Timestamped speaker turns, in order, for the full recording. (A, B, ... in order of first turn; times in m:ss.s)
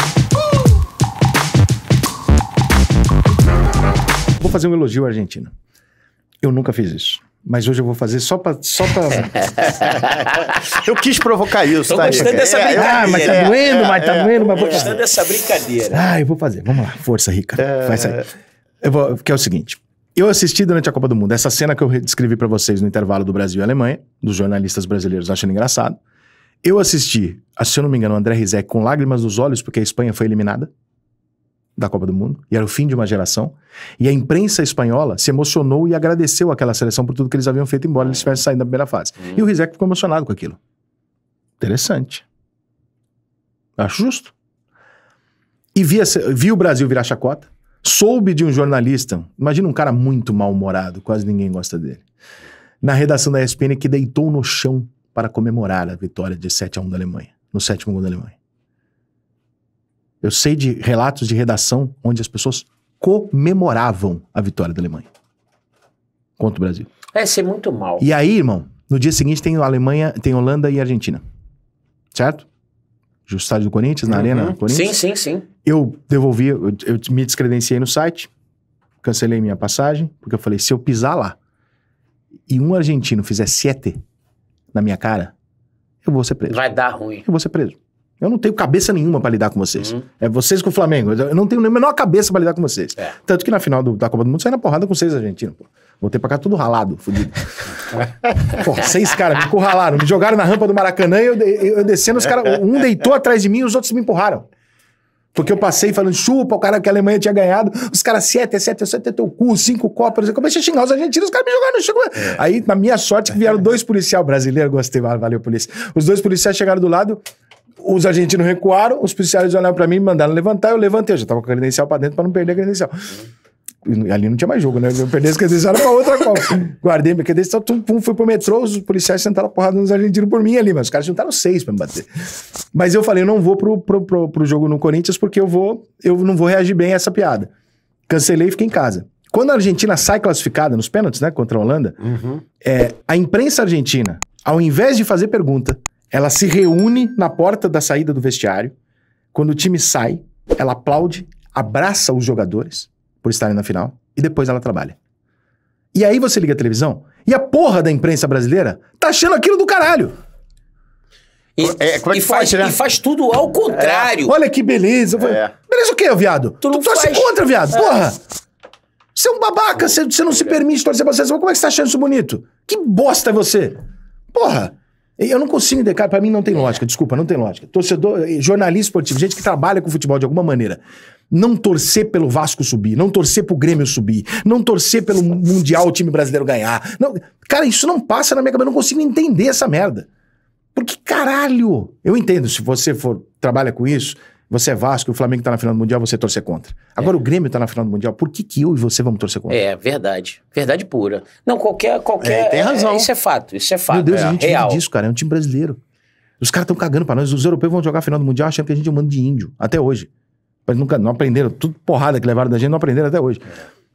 0:04.4-0:05.5 A
0:06.4-0:09.4 A
0:09.4-0:10.7 B
0:09.8-0:14.9 C
0:11.8-0:13.8 B
0:12.7-0:15.0 A
0:14.4-0:16.1 B
0:15.9-0:18.3 A
0:17.6-0:18.2 C
0:18.8-0:26.0 A
0:26.6-0:30.7 A
0:31.8-0:40.6 A
0:41.6-0:42.2 A
0:43.8-0:44.3 A
0:45.7-0:52.0 A
0:52.8-0:58.4 A
1:00.2-1:05.1 A
1:06.4-1:06.9 A
1:07.1-1:08.1 B
1:08.0-1:11.2 A
1:12.1-1:12.5 A
1:13.3-1:15.0 A
1:14.2-1:15.4 B
1:15.6-1:18.3 A
1:19.0-1:21.4 A
1:22.5-1:24.0 A
1:24.7-1:25.3 A
1:26.0-1:26.6 A
1:26.5-1:27.2 B
1:27.2-1:44.5 A
1:45.3-1:57.2 A
1:57.8-2:03.2 A
2:03.8-2:12.1 A
2:12.7-2:17.5 A
2:18.1-2:28.7 A
2:29.3-2:35.0 A
2:35.9-2:40.1 A
2:41.6-2:44.3 B
2:41.6-2:42.8 C
2:43.7-2:44.1 C
2:44.2-2:48.2 A
2:46.6-2:48.0 B
2:49.1-2:53.8 A
2:54.3-3:10.1 A
3:10.7-3:19.6 A
3:19.5-3:24.8 B
3:22.2-3:23.1 C
3:22.6-3:22.9 A
3:23.9-3:25.8 A
3:26.4-3:30.1 A
3:30.7-3:33.4 A